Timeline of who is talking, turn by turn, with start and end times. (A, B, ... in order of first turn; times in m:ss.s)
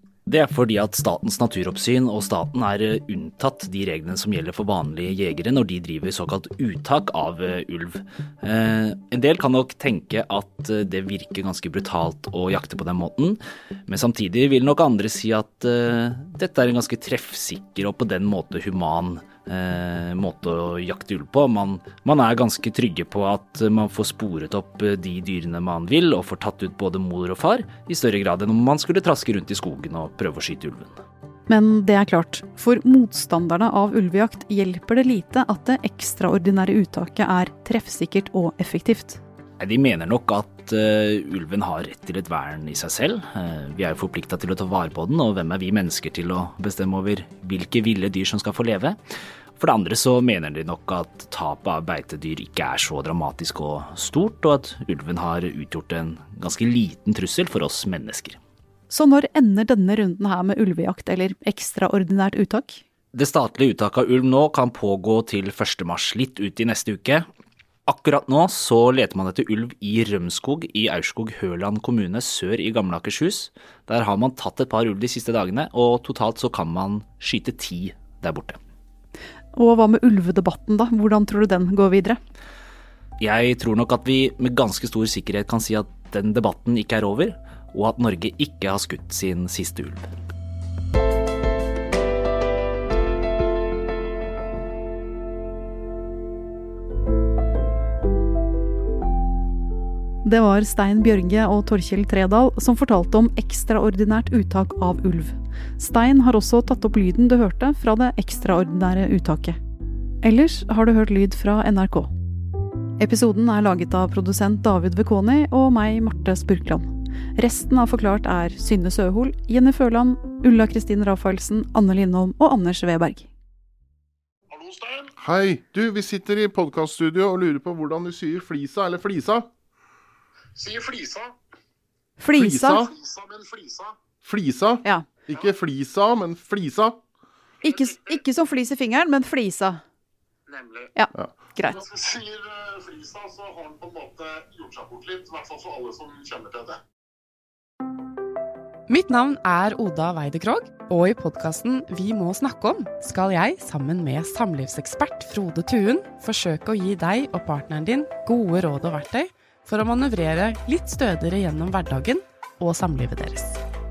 0:00.3-0:31.0 A
0:31.5-0:39.2 B
0:39.6-0:49.0 A
0:49.6-0:58.4 A
0:58.9-1:02.8 B
1:03.1-1:07.2 A
1:07.9-1:18.6 A
1:19.5-1:22.2 B
1:23.2-1:30.1 A
1:40.2-1:49.6 B
1:50.2-1:52.1 B
1:53.0-2:03.3 B
2:04.5-2:05.1 C
2:05.2-2:09.5 D
2:10.6-2:11.3 C
2:12.2-2:12.9 B
2:12.4-2:12.9 D
2:12.9-2:14.0 C
2:14.2-2:17.0 D
2:17.6-2:19.8 B
2:20.5-2:20.9 C
2:20.9-2:21.8 B
2:21.8-2:26.8 C
2:28.9-2:43.6 E